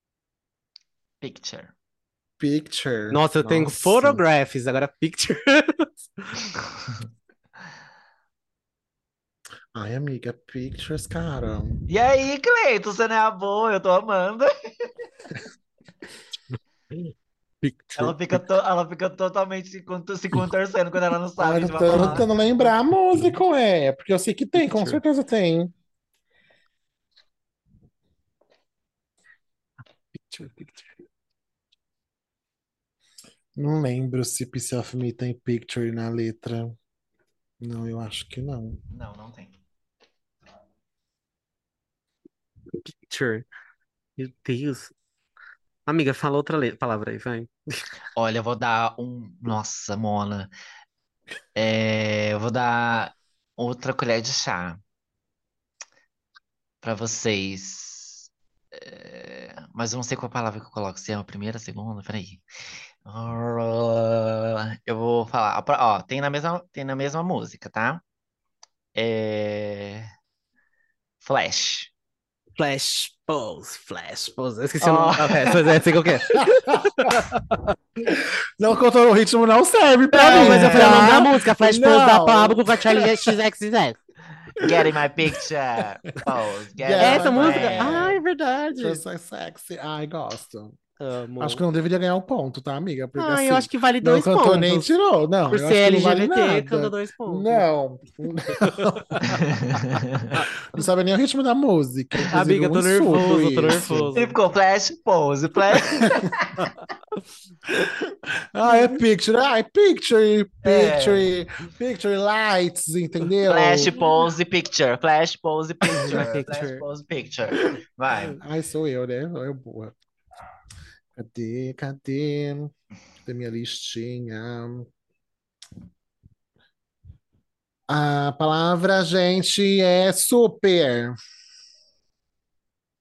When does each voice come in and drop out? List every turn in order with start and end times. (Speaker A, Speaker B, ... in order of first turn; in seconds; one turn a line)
Speaker A: 1.2-1.7
Speaker B: 2.4-4.2
Speaker C: 3.1-6.4
Speaker B: 9.7-11.8
Speaker A: 11.9-14.9
Speaker C: 17.6-18.4
Speaker A: 18.0-22.3
Speaker B: 21.4-25.7
Speaker C: 24.6-25.0
Speaker C: 30.1-30.9
Speaker B: 33.6-36.8
Speaker B: 37.6-38.8
Speaker A: 38.9-39.6
Speaker C: 42.9-43.5
Speaker C: 44.2-44.9
Speaker C: 45.9-47.8
Speaker A: 48.1-50.5
Speaker A: 51.5-54.8
Speaker A: 56.8-62.4
Speaker A: 63.1-68.0
Speaker A: 69.0-70.1
Speaker A: 71.2-71.9
Speaker C: 72.6-77.4
Speaker A: 74.8-75.7
Speaker B: 76.3-77.3
Speaker B: 78.1-83.3
Speaker C: 80.1-84.0
Speaker A: 80.2-81.2
Speaker A: 84.6-88.2
Speaker B: 84.6-85.0
Speaker B: 86.8-88.2
Speaker C: 87.0-89.0
Speaker B: 88.8-90.8
Speaker C: 91.0-91.6
Speaker B: 91.4-99.4
Speaker C: 93.2-94.9
Speaker C: 95.5-97.7
Speaker C: 98.5-99.4
Speaker A: 99.3-100.4
Speaker B: 100.7-104.1
Speaker C: 102.3-104.3
Speaker A: 104.1-106.7
Speaker B: 106.0-106.3
Speaker B: 107.8-114.0
Speaker C: 108.7-109.0
Speaker A: 110.6-111.3
Speaker A: 113.5-118.4
Speaker C: 115.9-116.8
Speaker B: 118.3-120.0
Speaker B: 121.2-122.7
Speaker B: 123.2-124.9
Speaker B: 127.9-131.2